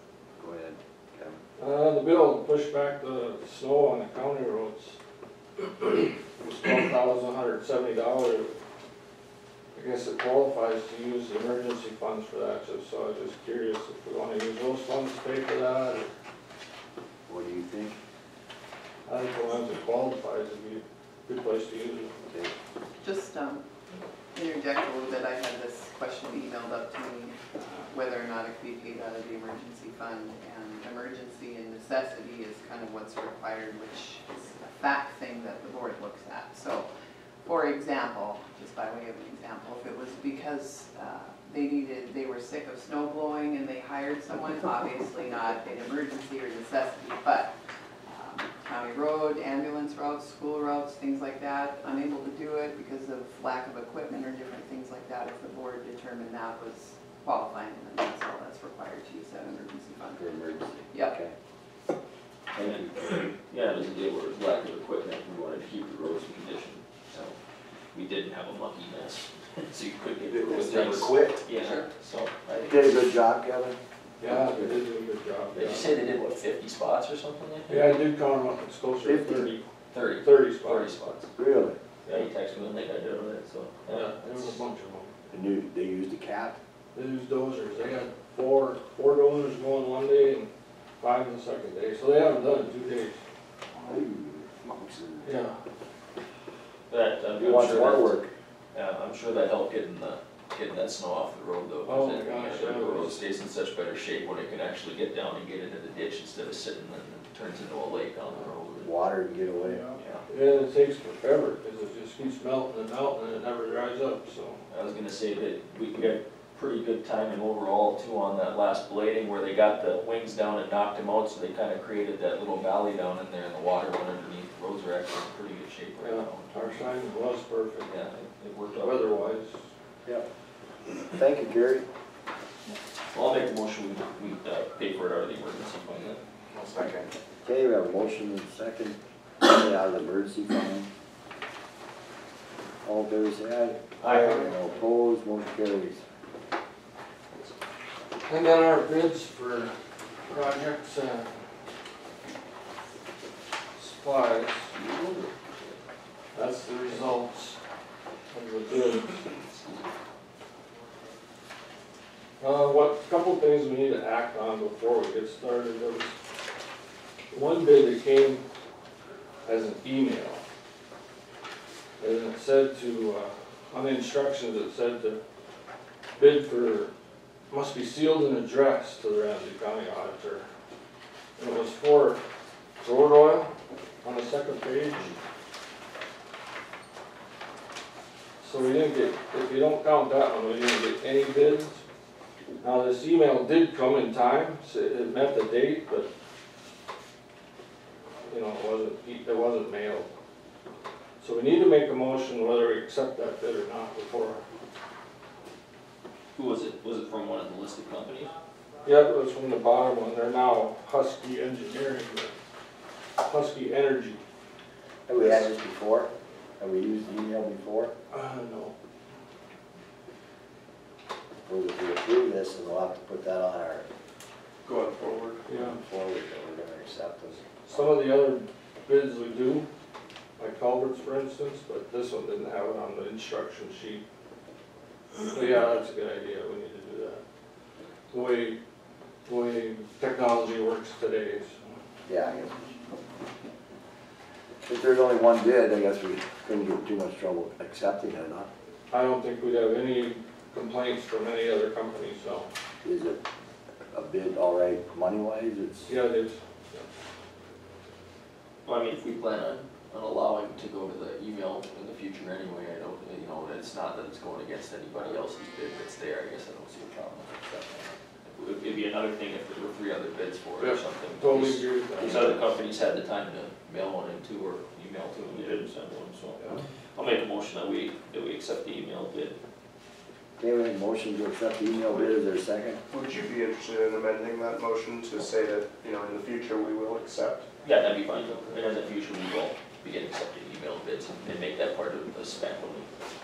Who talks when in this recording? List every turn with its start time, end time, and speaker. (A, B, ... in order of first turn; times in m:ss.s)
0:00.4-0:01.4 A
0:01.6-0:05.0 B
0:05.6-0:08.6 B
0:09.8-0:16.1 B
0:17.3-0:18.0 A
0:19.1-0:22.2 B
0:22.2-0:22.5 A
0:23.0-0:23.6 C
0:24.3-0:36.9 C
0:37.4-0:47.5 C
0:48.1-1:00.2 C
1:00.1-1:01.4 A
1:02.5-1:03.0 A
1:02.6-1:07.4 D
1:07.9-1:12.8 D
1:10.3-1:11.4 A
1:11.6-1:11.9 C
1:12.7-1:14.8 A
1:14.2-1:16.0 B
1:15.5-1:17.9 D
1:17.7-1:21.0 B
1:19.0-1:19.5 A
1:19.9-1:21.3 D
1:21.4-1:21.8 A
1:22.1-1:24.6 D
1:23.9-1:25.1 B
1:25.3-1:26.6 A
1:26.9-1:33.2 B
1:33.7-1:35.4 A
1:35.2-1:35.6 B
1:36.9-1:38.2 D
1:37.4-1:38.3 A
1:38.7-1:48.9 D
1:41.8-1:43.2 B
1:48.8-1:49.9 A
1:49.7-1:54.6 B
1:50.0-1:50.2 D
1:54.7-2:06.8 D
2:06.0-2:08.0 B
2:07.8-2:09.1 D
2:08.8-2:09.6 B
2:11.1-2:11.9 A
2:13.1-2:16.2 D
2:16.5-2:17.1 E
2:17.4-2:20.9 A
2:22.8-2:26.0 A
2:24.0-2:24.4 D
2:28.3-2:29.7 B
2:30.3-2:31.4 B
2:33.8-2:34.7 B
2:34.7-2:35.8 D
2:36.3-2:37.6 B
2:38.3-2:39.2 B
2:42.4-2:46.2 B
2:47.3-2:48.4 B
2:49.5-2:50.4 B
2:52.0-2:55.2 B
2:56.2-2:56.9 B
2:57.5-3:00.5 B
3:01.4-3:02.2 B
3:02.8-3:03.5 B
3:04.0-3:05.2 B
3:08.4-3:11.8 B
3:12.6-3:16.1 B
3:18.3-3:20.1 B
3:21.2-3:24.4 B
3:26.4-3:28.3 D
3:28.8-3:32.4 B
3:33.2-3:34.2 B
3:35.1-3:37.9 A
3:38.1-3:38.7 B
3:41.5-3:43.9 A
3:44.6-3:45.4 E
3:45.5-3:45.8 B
3:45.5-3:47.4 A
3:47.6-3:49.7 B
3:50.4-3:54.0 B
3:55.3-3:57.2 B
3:58.1-3:58.6 B
3:59.3-4:01.6 B
4:02.1-4:02.7 A
4:04.7-4:08.5 A
4:08.9-4:12.5 B
4:12.8-4:13.2 A
4:13.9-4:16.0 A
4:15.9-4:16.9 B
4:18.6-4:27.7 D
4:28.3-4:36.4 D
4:30.6-4:32.4 B
4:37.0-4:39.4 D
4:40.4-4:42.8 A
4:42.9-4:47.5 E
4:47.6-4:52.9 D